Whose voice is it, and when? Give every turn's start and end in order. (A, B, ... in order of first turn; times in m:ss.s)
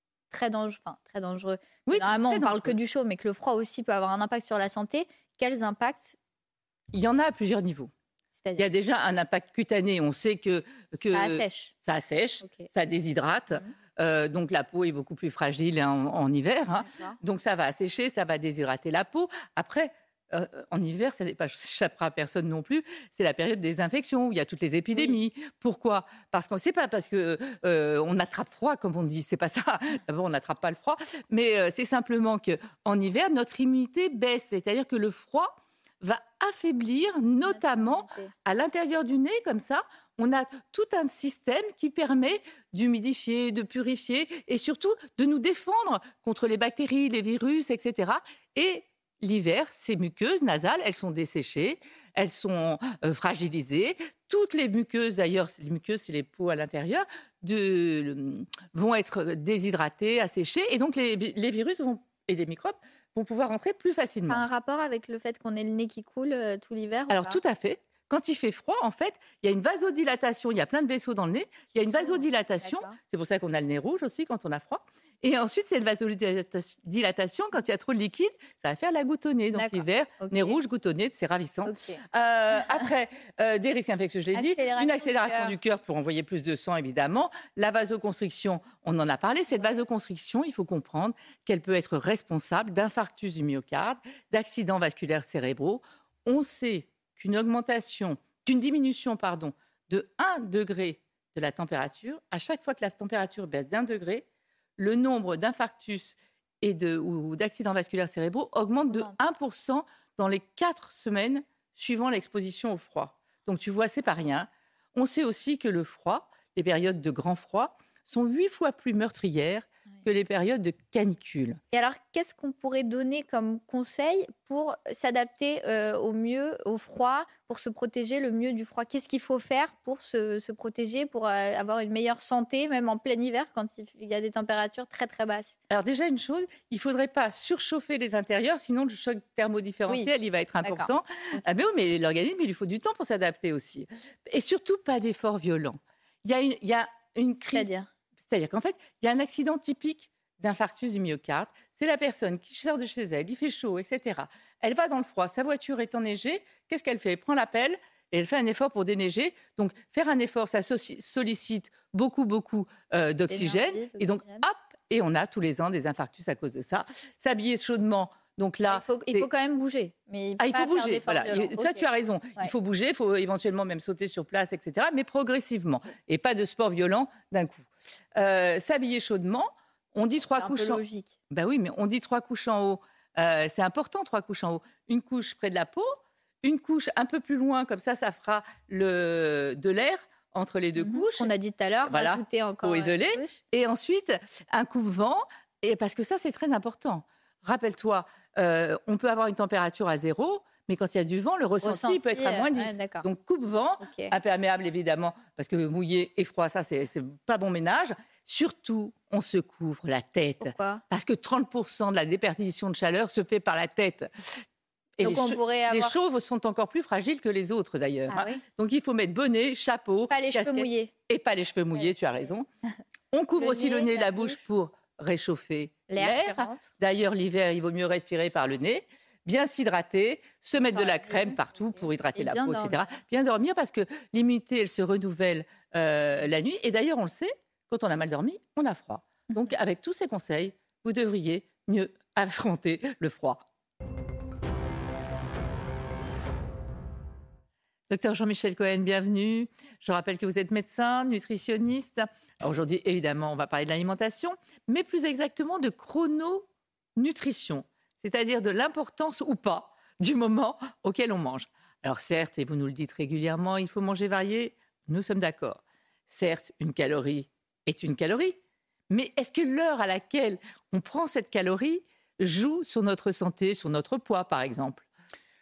0:00.3-0:06.2 A
0:01.9-0:02.8 B
0:06.9-0:07.9 B
0:08.6-1:04.4 B
0:11.1-0:11.7 A
0:16.8-0:17.2 A
0:37.5-0:38.3 A
1:04.3-1:07.4 A
1:07.1-1:44.3 B
1:11.8-1:13.0 A
1:19.5-1:20.6 A
1:21.7-1:22.0 A
1:24.3-1:25.6 A
1:44.8-2:01.6 B
2:01.7-2:15.6 A
2:15.7-2:27.7 B
2:20.6-2:20.9 A
2:27.5-2:27.9 A
2:28.3-2:49.3 B
2:43.3-2:44.4 A
2:48.7-2:51.8 A
2:50.4-3:05.9 B
3:00.4-3:01.1 A
3:06.4-3:11.3 B
3:10.8-3:13.4 A
3:11.9-3:34.4 B
3:21.6-3:23.1 A
3:23.8-3:24.1 A
3:30.4-3:30.8 A
3:35.0-3:42.5 B
3:35.0-3:36.0 A
3:38.1-3:38.4 A
3:40.1-3:40.9 A
3:43.1-4:03.4 B
3:43.4-3:44.4 A
3:45.9-3:46.7 A
3:50.6-3:51.4 A
3:52.1-3:52.9 A
4:07.9-4:28.4 B
4:28.9-4:34.9 B